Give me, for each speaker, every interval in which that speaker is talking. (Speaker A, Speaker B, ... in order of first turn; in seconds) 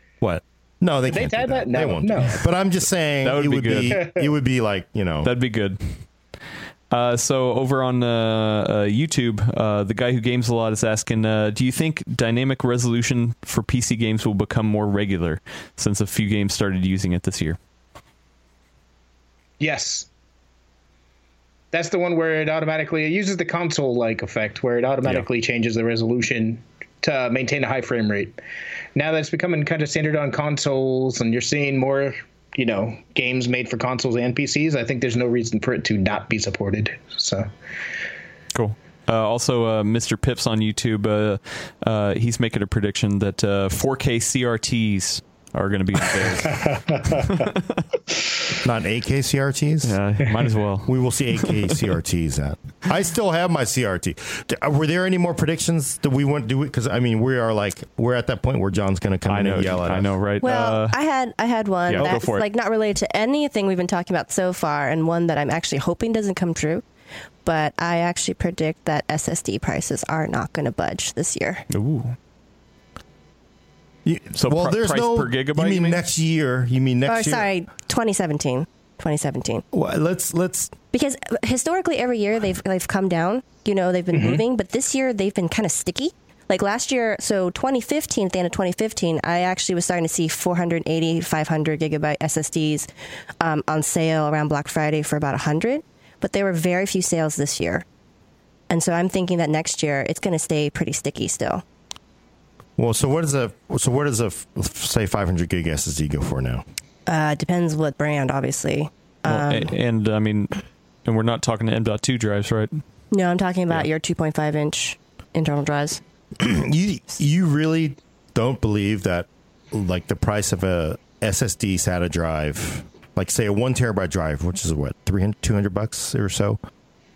Speaker A: 0.2-5.3, 48.6-50.0, 50.9-60.1, 74.0-77.5, 79.7-80.7, 102.8-106.6, 116.4-126.6
Speaker B: 1.1-2.5, 3.9-4.3, 19.6-20.1, 21.7-28.4, 28.9-37.5, 46.5-47.2
Speaker C: 3.2-4.0, 5.2-5.8, 6.9-17.6, 38.5-47.8, 49.8-51.8, 59.2-61.0, 61.9-62.4, 71.7-72.2, 74.3-76.0, 109.2-112.7
Speaker D: 60.4-66.8, 67.4-71.6, 77.1-79.6, 80.9-92.9, 93.4-97.8, 98.7-101.6, 107.0-109.7, 113.1-116.0